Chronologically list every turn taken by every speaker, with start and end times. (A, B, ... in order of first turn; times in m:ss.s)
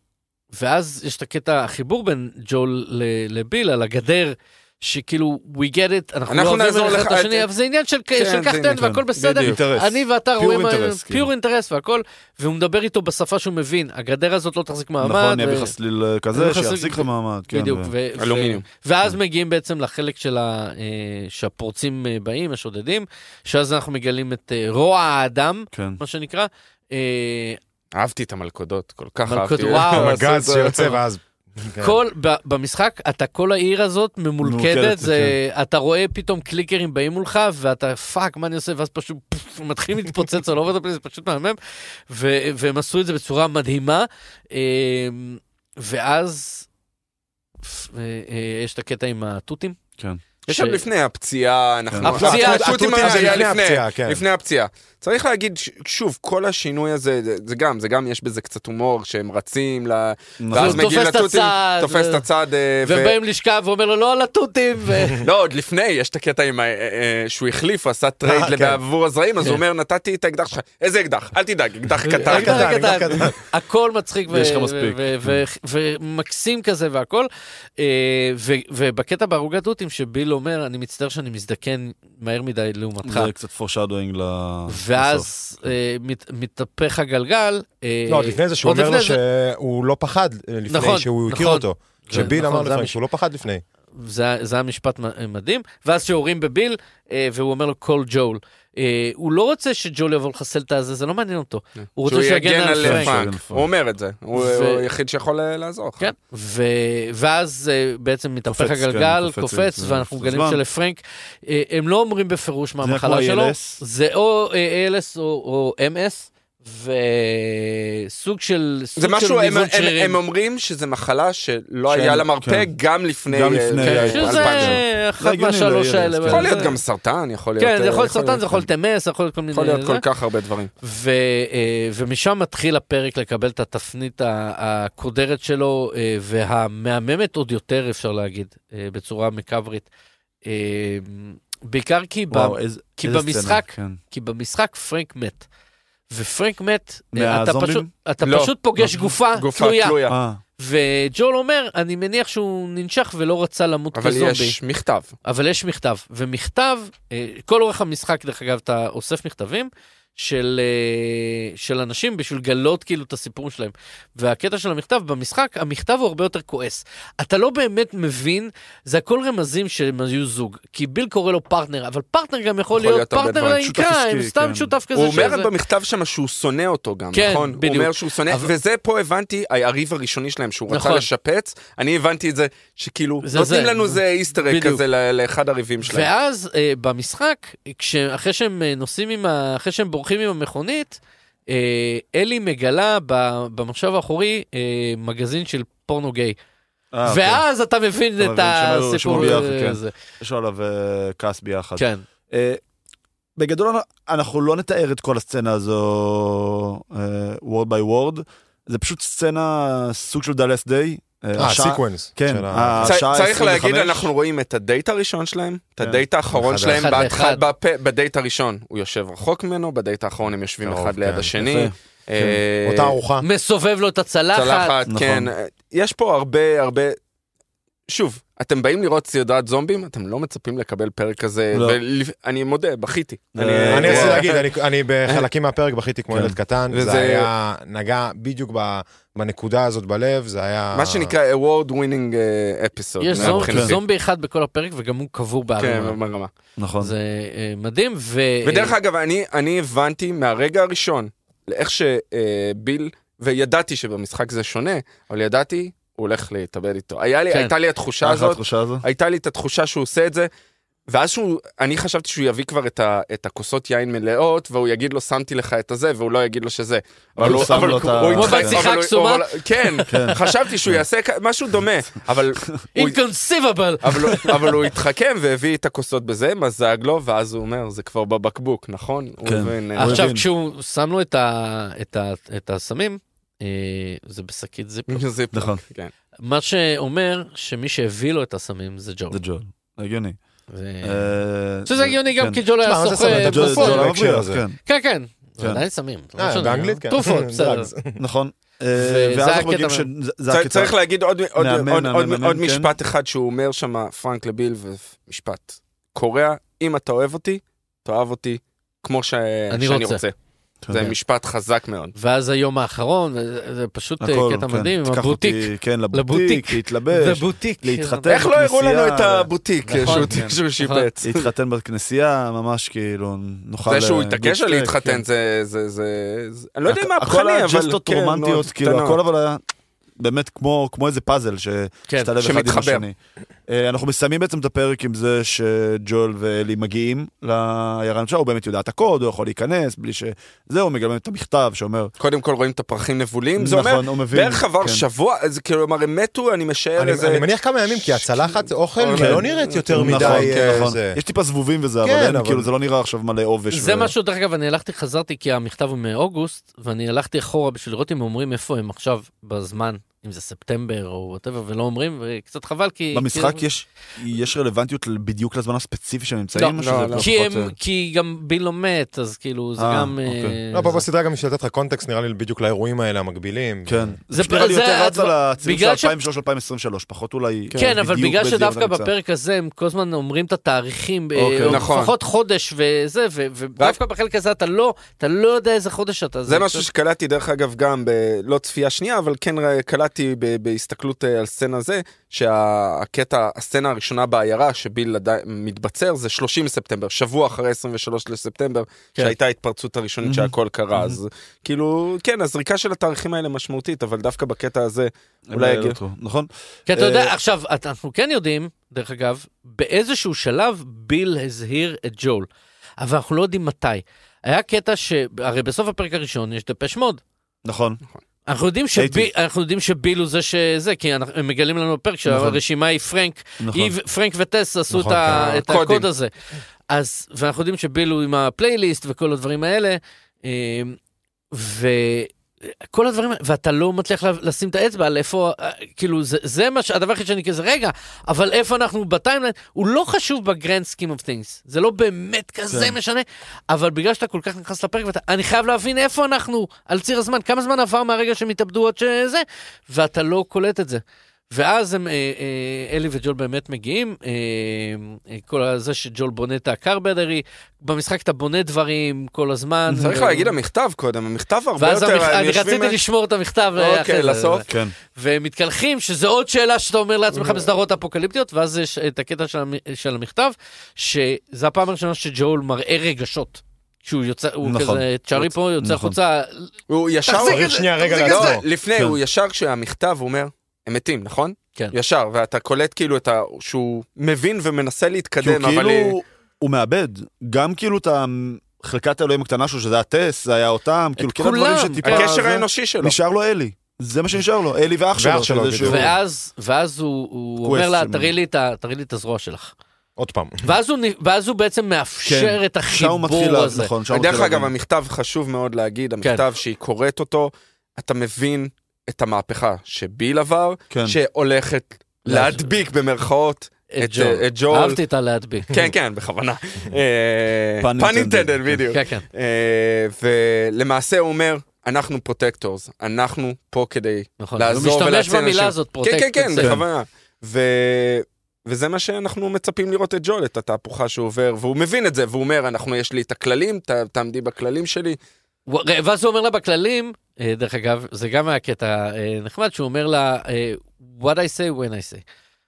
0:00.5-0:15.7 A
0:06.3-0:07.5 B
0:08.2-0:09.6 B
0:08.8-0:11.3 C
0:15.0-0:17.9 C
0:16.3-0:27.6 A
0:18.2-0:18.6 B
0:25.7-0:26.0 C
0:27.9-0:31.0 B
0:29.3-0:30.2 A
0:29.8-0:32.0 D
0:31.8-0:41.6 A
0:34.4-0:35.4 C
0:42.1-0:46.7 A
0:47.6-0:49.8 A
0:50.5-0:50.8 A
0:50.5-1:03.2 B
0:52.0-0:53.5 A
0:52.0-0:54.2 D
1:00.4-1:00.9 C
1:00.5-1:02.2 A
1:02.8-1:05.2 A
1:05.2-1:13.0 B
1:12.0-1:23.3 A
1:12.2-1:13.4 D
1:14.3-1:15.4 C
1:23.0-1:25.3 C
1:24.7-1:29.2 A
1:28.1-1:33.6 D
1:30.7-1:33.0 A
1:33.9-1:43.3 A
1:42.0-1:46.1 B
1:42.8-1:43.7 C
1:44.3-1:44.8 A
1:46.0-2:00.2 A
1:48.5-1:50.6 C
1:52.8-1:53.8 C
1:59.0-2:04.8 B
2:01.9-2:02.7 C
2:03.3-2:06.6 C
2:03.8-2:06.8 A
2:06.3-2:08.6 B
2:07.6-2:10.0 A
2:09.5-2:10.7 B
2:10.8-2:19.9 A
2:20.4-2:25.5 A
2:22.3-2:24.0 C
2:26.1-2:30.0 A
2:27.1-2:27.9 C
2:28.2-2:30.2 B
2:30.1-2:30.4 C
2:30.6-2:34.6 A
2:33.9-2:35.1 B
2:35.2-2:55.5 A
2:52.7-2:53.6 B
2:53.6-2:54.7 C
2:54.9-3:06.1 B
2:57.1-2:58.5 A
3:00.7-3:01.1 A
3:03.2-3:04.8 A
3:05.8-3:16.4 A
3:16.9-3:17.4 C
3:17.0-3:19.9 A
3:18.2-3:22.6 C
3:21.8-3:22.0 A
3:23.4-3:34.1 C
3:31.4-3:33.0 D
3:32.8-3:43.0 B
3:36.3-3:36.9 D
3:36.7-3:37.4 A
3:40.6-3:41.4 D
3:41.4-3:42.4 C
3:42.6-3:43.3 D
3:43.2-3:44.7 A
3:44.3-3:47.0 B
3:44.9-3:45.3 C
3:47.9-3:54.5 B
3:51.5-3:51.8 C
3:53.3-3:54.3 C
3:53.7-4:01.1 D
3:56.1-3:56.4 C
3:56.7-3:57.3 B
4:00.7-4:03.8 B
4:03.0-4:06.0 A
4:03.2-4:03.8 C
4:05.6-4:06.3 B
4:06.6-4:06.9 C
4:06.8-4:08.8 A
4:08.4-4:20.3 B
4:18.0-4:18.8 C
4:20.9-4:33.0 B
4:27.2-4:28.6 C
4:27.2-4:30.3 A
4:29.9-4:30.8 C
4:32.7-4:34.5 A
4:33.8-4:40.1 B
4:39.2-4:40.2 C
4:39.7-4:45.0 A
4:44.9-4:45.9 B
4:45.3-4:45.6 C
4:46.2-4:49.2 A
4:49.1-4:50.2 C
4:50.5-4:51.1 A
4:50.8-4:52.4 C
4:51.6-4:53.9 A
4:52.6-4:54.4 D
4:53.0-4:54.6 C
4:54.6-4:57.7 A
4:56.2-4:58.0 D
4:58.0-5:00.8 C
4:58.7-4:59.9 A
5:00.3-5:10.1 B
5:01.4-5:02.7 C
5:09.5-5:10.0 A
5:10.6-5:10.9 C
5:10.7-5:11.9 B
5:12.0-5:18.2 A
5:14.0-5:20.4 C
5:18.1-5:21.3 B
5:19.6-5:20.9 A
5:21.0-5:25.0 C
5:23.7-5:29.0 B
5:26.7-5:29.4 C
5:30.0-5:33.0 C
5:32.2-5:32.8 B
5:33.5-5:41.9 C
5:42.0-5:50.7 B
5:43.4-5:44.8 C
5:46.8-5:51.0 D
5:48.9-5:53.9 C
5:51.8-5:52.5 D
5:53.5-6:03.4 A
6:02.9-6:07.5 C
6:06.3-6:10.8 A
6:06.6-6:07.1 B
6:09.6-6:10.4 C
6:10.5-6:13.9 D
6:13.6-6:18.9 C
6:14.1-6:15.9 A
6:17.5-6:26.7 A
6:21.2-6:21.6 C
6:21.4-6:21.9 B
6:26.3-6:45.8 B
6:40.0-6:41.0 C
6:45.3-6:47.1 C
6:46.7-6:52.3 A
6:52.8-6:57.0 A
6:57.4-6:57.8 C
6:58.2-7:06.1 A
6:58.8-6:59.1 C
7:02.0-7:02.4 C
7:03.4-7:03.7 C
7:04.7-7:05.2 D
7:05.0-7:05.9 B
7:06.7-7:10.8 A
7:11.3-7:40.3 A
7:22.5-7:22.8 C
7:39.7-7:42.8 B
7:41.6-7:56.5 A
7:43.6-7:44.4 B
7:44.5-7:44.7 C
7:54.4-7:56.0 C
7:56.7-8:06.0 B
7:57.1-7:58.3 A
7:57.1-7:58.4 D
8:05.2-8:15.9 C
8:11.0-8:12.2 A
8:11.8-8:13.0 B
8:14.9-8:15.9 D
8:15.6-8:19.5 A
8:17.4-8:18.1 C
8:20.0-8:20.4 D
8:20.4-8:23.7 A
8:22.0-8:24.5 C
8:23.9-8:34.8 B
8:30.7-8:31.0 C
8:32.0-8:32.4 C
8:33.7-8:35.5 A
8:35.5-8:55.0 B
8:37.6-8:38.6 C
8:38.7-8:39.0 A
8:44.2-8:46.5 A
8:46.4-8:46.6 C
8:55.5-9:02.0 A